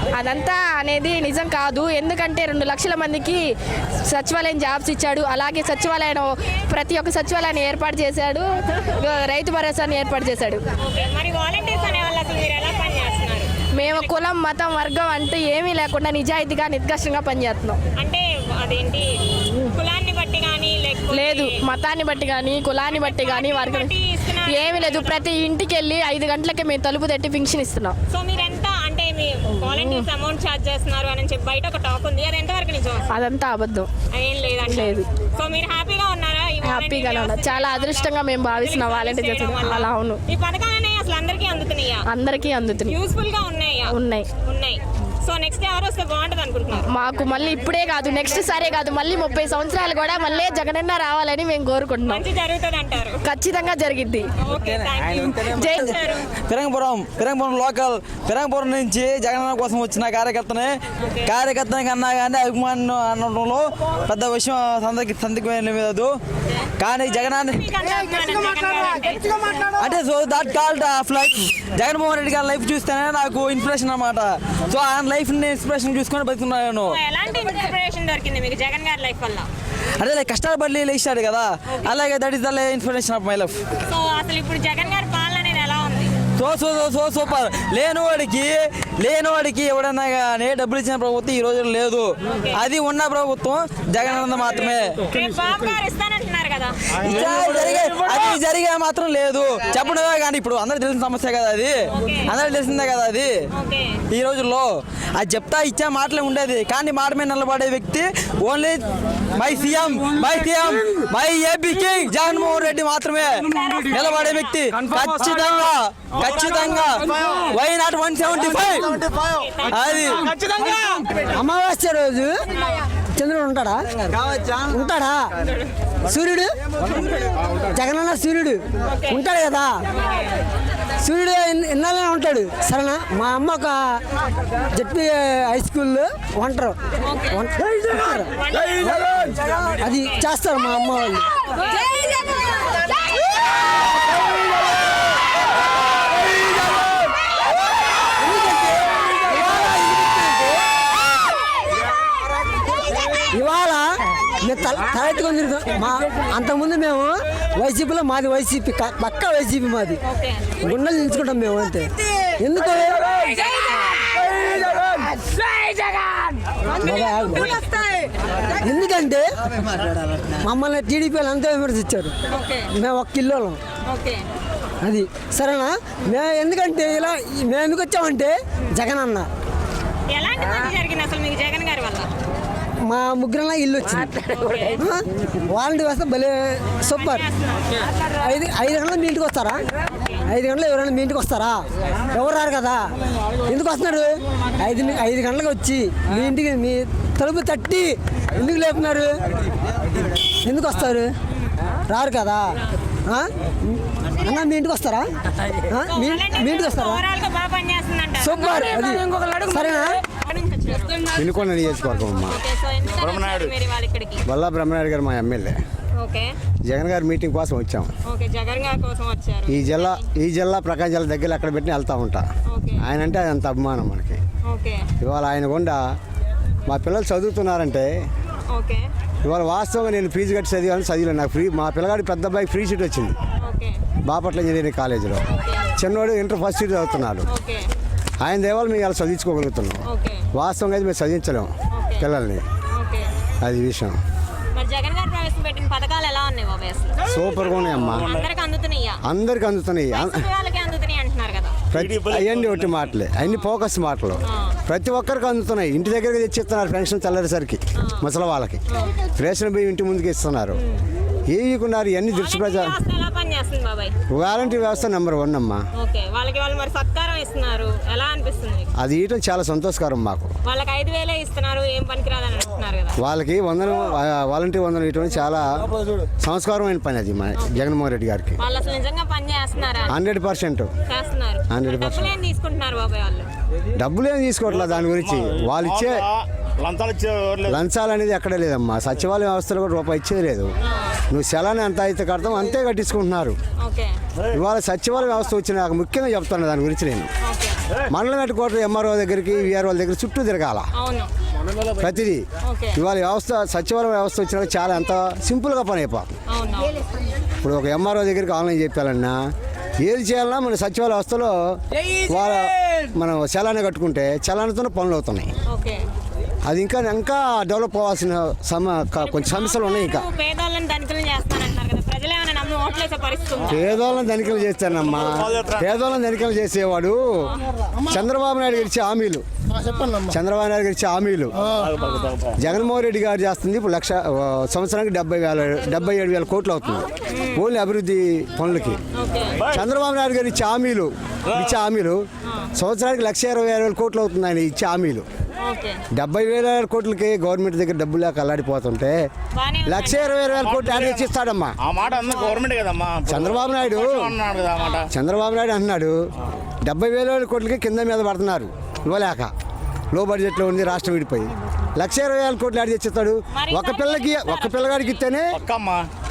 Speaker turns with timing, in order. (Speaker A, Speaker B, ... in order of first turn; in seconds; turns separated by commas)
Speaker A: 0.2-3.5, Speaker A: 4.1-10.6, Speaker B: 10.8-14.2, Speaker A: 13.8-17.8, Speaker B: 18.0-21.6, Speaker A: 21.1-23.9, Speaker B: 22.9-25.2, Speaker A: 24.5-27.9, Speaker B: 28.1-33.1, Speaker A: 29.7-30.0, Speaker A: 33.1-33.9, Speaker B: 34.1-42.0, Speaker A: 34.6-35.1, Speaker A: 36.6-40.2, Speaker A: 42.1-43.0, Speaker B: 42.9-46.9, Speaker A: 43.9-44.3, Speaker A: 46.9-52.2, Speaker B: 52.1-53.2, Speaker A: 53.2-54.3, Speaker B: 54.4-56.3, Speaker C: 55.1-55.4, Speaker A: 55.4-56.0, Speaker C: 56.3-66.1, Speaker B: 61.0-61.3, Speaker B: 66.5-69.8, Speaker C: 66.8-67.7, Speaker C: 69.7-77.0, Speaker B: 76.9-79.5, Speaker C: 80.0-83.6, Speaker B: 83.9-86.2, Speaker C: 86.4-95.1, Speaker B: 92.3-92.6, Speaker B: 95.1-97.0, Speaker C: 97.0-103.3, Speaker B: 101.9-102.3, Speaker B: 103.5-104.0, Speaker C: 104.1-119.1, Speaker B: 113.6-113.9, Speaker D: 116.3-117.5, Speaker B: 119.1-120.2, Speaker C: 119.7-120.3, Speaker D: 120.3-121.0, Speaker E: 121.3-122.3, Speaker E: 123.2-125.3, Speaker E: 126.0-126.5, Speaker E: 127.6-129.8, Speaker B: 129.9-130.3, Speaker E: 131.0-134.0, Speaker E: 134.7-136.8, Speaker B: 137.0-137.5, Speaker E: 137.3-138.3, Speaker B: 138.3-140.3, Speaker E: 139.8-141.3, Speaker B: 141.5-142.4, Speaker E: 148.2-150.5, Speaker E: 153.2-160.0, Speaker B: 160.1-160.6, Speaker E: 160.6-163.5, Speaker B: 163.5-164.1, Speaker B: 166.7-168.1, Speaker E: 166.8-167.5, Speaker E: 168.6-169.3, Speaker E: 170.4-172.1, Speaker B: 172.3-172.7, Speaker E: 172.7-173.6, Speaker B: 173.9-174.2, Speaker E: 174.8-179.3, Speaker B: 180.1-182.1, Speaker E: 182.8-184.2, Speaker B: 184.2-184.8, Speaker E: 184.8-187.2, Speaker B: 186.9-187.9, Speaker E: 188.2-189.6, Speaker E: 190.3-192.8, Speaker E: 193.5-199.2, Speaker E: 200.3-201.1, Speaker E: 201.9-205.1, Speaker E: 205.7-207.1, Speaker B: 205.8-208.7, Speaker E: 208.2-210.0, Speaker B: 210.1-211.1, Speaker F: 211.1-212.4, Speaker B: 212.2-214.2, Speaker D: 213.0-213.5, Speaker F: 214.3-215.6, Speaker B: 216.0-216.3, Speaker F: 216.7-217.9, Speaker B: 218.1-220.1, Speaker F: 219.5-222.3, Speaker B: 222.5-222.8, Speaker F: 222.8-224.2, Speaker B: 224.5-224.9, Speaker F: 225.0-225.8, Speaker F: 226.7-227.9, Speaker B: 228.5-228.8, Speaker F: 229.2-233.2, Speaker B: 233.4-233.8, Speaker F: 234.1-237.3, Speaker B: 235.4-235.7, Speaker B: 237.3-237.7, Speaker F: 238.2-242.4, Speaker B: 239.9-240.2, Speaker B: 241.7-242.1, Speaker B: 242.8-243.1, Speaker F: 243.4-244.0, Speaker B: 244.6-247.0, Speaker F: 247.1-248.1, Speaker D: 247.7-248.2, Speaker B: 248.1-249.0, Speaker F: 249.1-250.3, Speaker B: 249.9-251.6, Speaker F: 251.7-258.6, Speaker D: 251.7-252.9, Speaker B: 253.2-253.5, Speaker B: 258.7-259.0, Speaker F: 259.1-260.6, Speaker B: 260.6-260.8, Speaker F: 261.3-262.7, Speaker B: 262.1-263.9, Speaker F: 264.1-265.6, Speaker B: 265.8-268.7, Speaker F: 268.8-270.3, Speaker B: 270.4-273.0, Speaker F: 273.0-275.6, Speaker F: 276.2-278.4, Speaker B: 277.4-277.7, Speaker B: 278.4-280.0, Speaker F: 279.9-280.7, Speaker B: 280.9-283.3, Speaker F: 281.5-282.1, Speaker F: 283.8-286.1, Speaker D: 284.5-287.6, Speaker F: 287.5-290.5, Speaker B: 290.7-291.0, Speaker F: 291.1-293.4, Speaker B: 293.6-293.9, Speaker F: 294.3-297.1, Speaker B: 297.2-297.6, Speaker F: 297.9-300.7, Speaker B: 300.8-301.1, Speaker F: 301.8-302.2, Speaker B: 302.4-302.8, Speaker F: 302.8-306.1, Speaker B: 306.3-306.8, Speaker F: 307.4-309.2, Speaker F: 309.8-315.3, Speaker B: 315.5-315.8, Speaker F: 316.5-320.1, Speaker B: 319.0-323.6, Speaker F: 323.5-327.0, Speaker D: 325.1-325.6, Speaker F: 327.9-329.3, Speaker B: 329.6-330.1, Speaker F: 330.0-331.4, Speaker D: 331.6-332.4, Speaker B: 331.8-332.2, Speaker F: 332.4-338.8, Speaker B: 337.1-337.4, Speaker B: 338.9-339.4, Speaker F: 339.5-342.0, Speaker F: 342.6-345.1, Speaker B: 345.4-345.8, Speaker F: 345.9-349.0, Speaker B: 349.4-350.3, Speaker F: 349.6-351.5, Speaker D: 350.3-351.1, Speaker D: 351.6-354.9, Speaker F: 353.1-354.2, Speaker B: 354.6-354.9, Speaker F: 354.9-356.0, Speaker F: 356.6-359.3, Speaker F: 359.9-365.4, Speaker B: 363.3-365.1, Speaker D: 365.3-365.9